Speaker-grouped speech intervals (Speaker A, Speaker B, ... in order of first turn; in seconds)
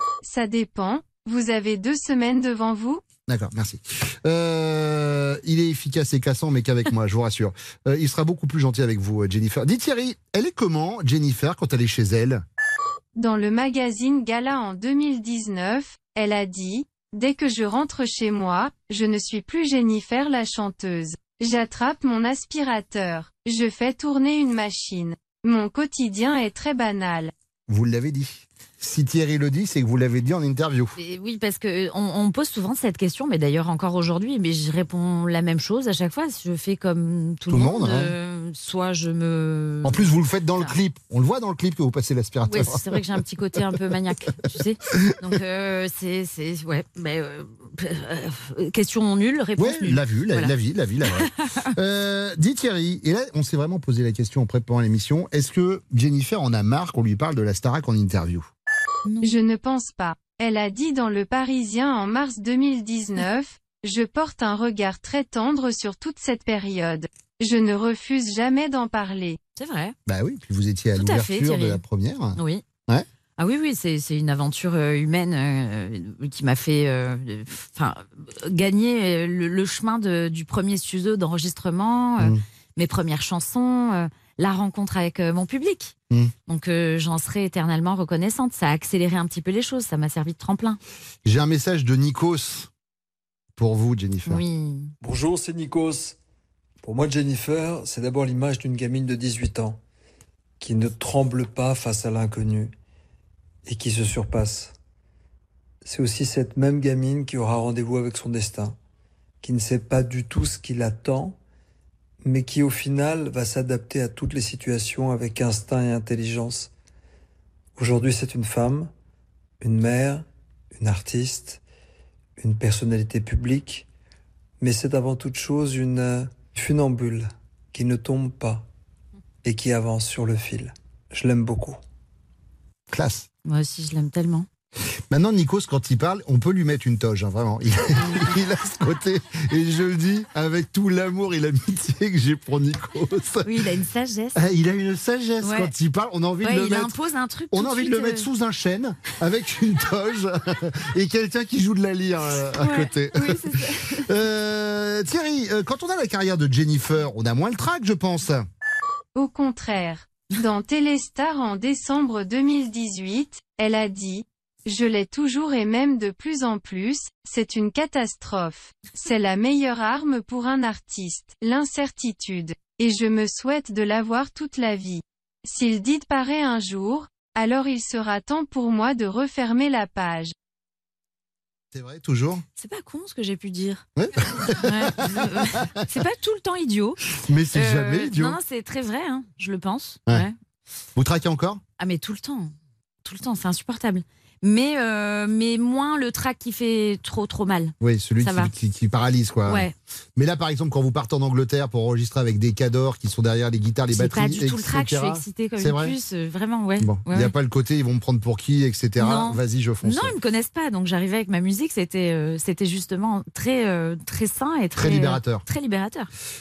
Speaker A: 0.2-3.0, 13.2-27.3, 59.2-69.4, 159.1-180.3
Speaker B: 3.3-12.4, 27.7-30.9, 37.5-38.1, 39.8-43.8, 44.9-45.3, 49.6-58.5, 70.0-73.0, 91.2-92.7, 93.6-94.4, 132.9-133.3, 135.1-143.6, 144.3-146.9, 147.5-158.4, 181.7-182.4, 183.9-185.7, 187.2-188.4, 190.9-191.6, 197.8-205.9, 206.8-210.1, 214.8-215.4
Speaker C: 31.0-40.7, 42.5-50.5, 51.1-51.7, 59.0-59.3, 69.5-70.0, 71.0-71.8, 72.3-72.6, 73.4-85.9, 86.5-90.8, 94.2-94.9, 133.4-134.5, 138.0-138.3, 143.4-144.4, 145.4-145.7, 146.4-148.3, 152.6-154.1, 182.6-183.8, 184.6-190.3, 191.8-192.5, 193.0-198.5, 199.5-199.7, 203.9-207.3, 209.0-216.1
Speaker D: 95.0-96.2, 96.8-99.8, 100.6-102.7, 103.7-104.7, 105.8-108.8, 109.4-111.4, 112.2-116.7, 117.8-118.9, 119.6-121.6, 122.4-123.9, 124.6-128.7, 129.4-131.8